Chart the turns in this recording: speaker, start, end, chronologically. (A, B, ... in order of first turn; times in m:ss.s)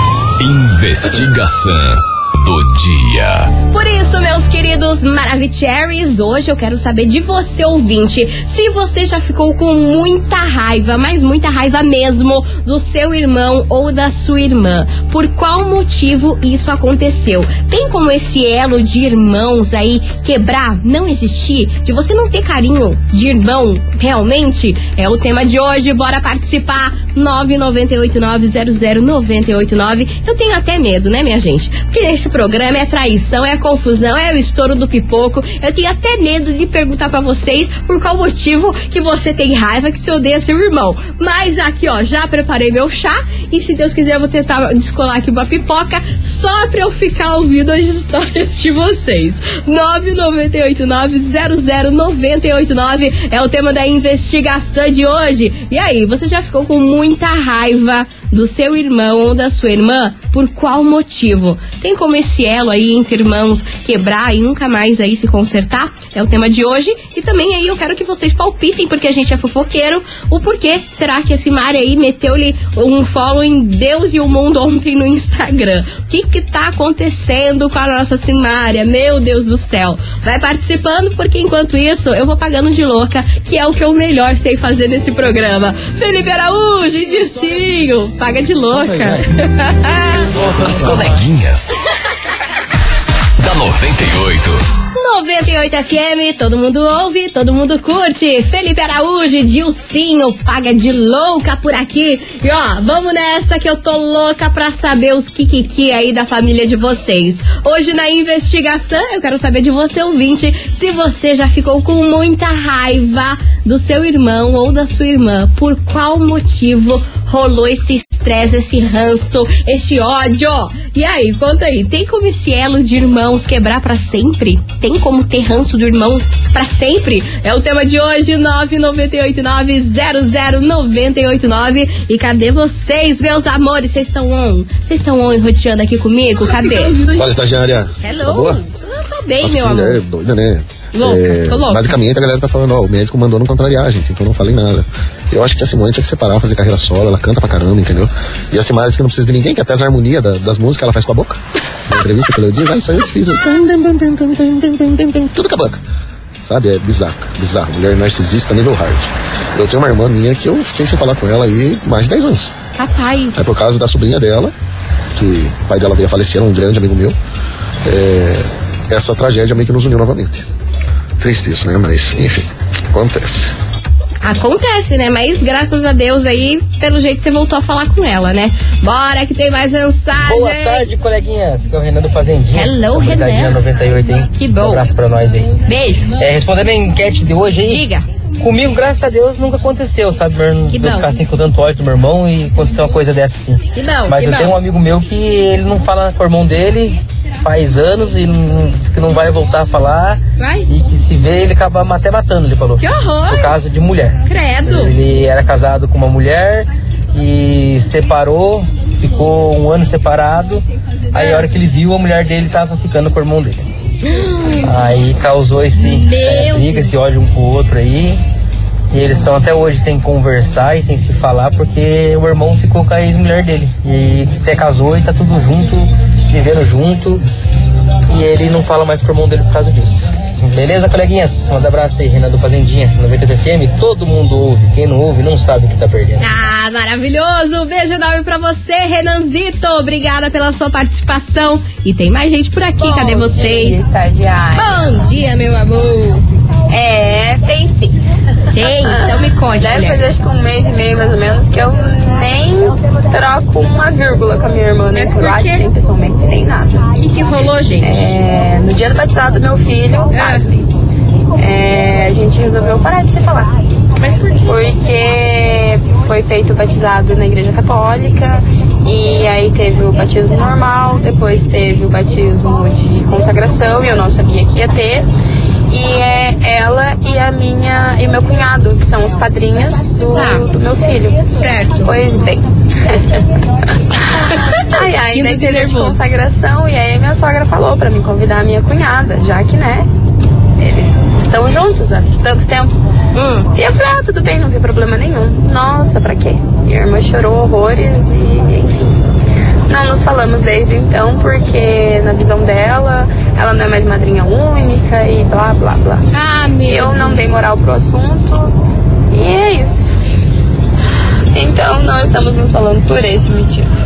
0:00.4-0:03.5 A
0:03.7-1:30.3 B
1:30.5-1:31.7 A
1:33.4-1:34.6 A
1:35.0-2:17.3 B
2:16.6-2:18.6 C
2:18.0-2:20.0 B
2:19.4-2:35.8 C
2:20.9-2:22.0 B
2:36.4-2:42.5 C
2:42.8-2:43.5 B
2:43.4-2:44.5 C
2:45.2-2:47.2 C
2:47.8-2:50.5 C
2:51.2-2:53.5 C
2:54.2-3:00.9 B
3:00.2-3:05.6 D
3:02.5-3:03.6 B
3:04.3-3:04.8 B
3:05.7-3:06.1 B
3:06.1-3:07.8 D
3:07.7-3:08.0 B
3:08.4-3:33.7 D
3:10.7-3:11.1 B
3:13.7-3:14.6 B
3:20.4-3:20.7 B
3:22.8-3:23.6 B
3:24.3-3:24.9 B
3:31.1-3:31.4 B
3:34.0-3:34.7 B
3:34.6-3:38.2 D
3:35.8-3:36.9 B
3:38.9-3:47.2 D
3:48.1-3:56.3 D
3:56.2-4:03.8 B
4:02.8-4:04.9 E
4:04.6-4:06.2 B
4:06.7-4:08.0 E
4:08.5-4:16.9 E
4:08.6-4:10.1 B
4:14.9-4:15.6 B
4:17.0-4:18.2 B
4:17.8-4:20.7 E
4:20.1-4:20.4 B
4:21.4-4:23.5 E
4:24.0-4:24.7 B
4:24.4-4:35.1 E
4:35.7-4:43.2 E
4:40.1-4:40.4 B
4:41.3-4:42.0 B
4:43.9-4:49.9 E
4:44.6-4:46.0 B
4:50.6-4:52.7 E
4:53.1-4:53.5 B
4:53.6-4:59.0 E
4:59.7-5:06.1 E
5:06.1-5:07.4 B
5:06.7-5:08.5 E
5:09.1-5:10.0 E
5:11.3-5:13.7 E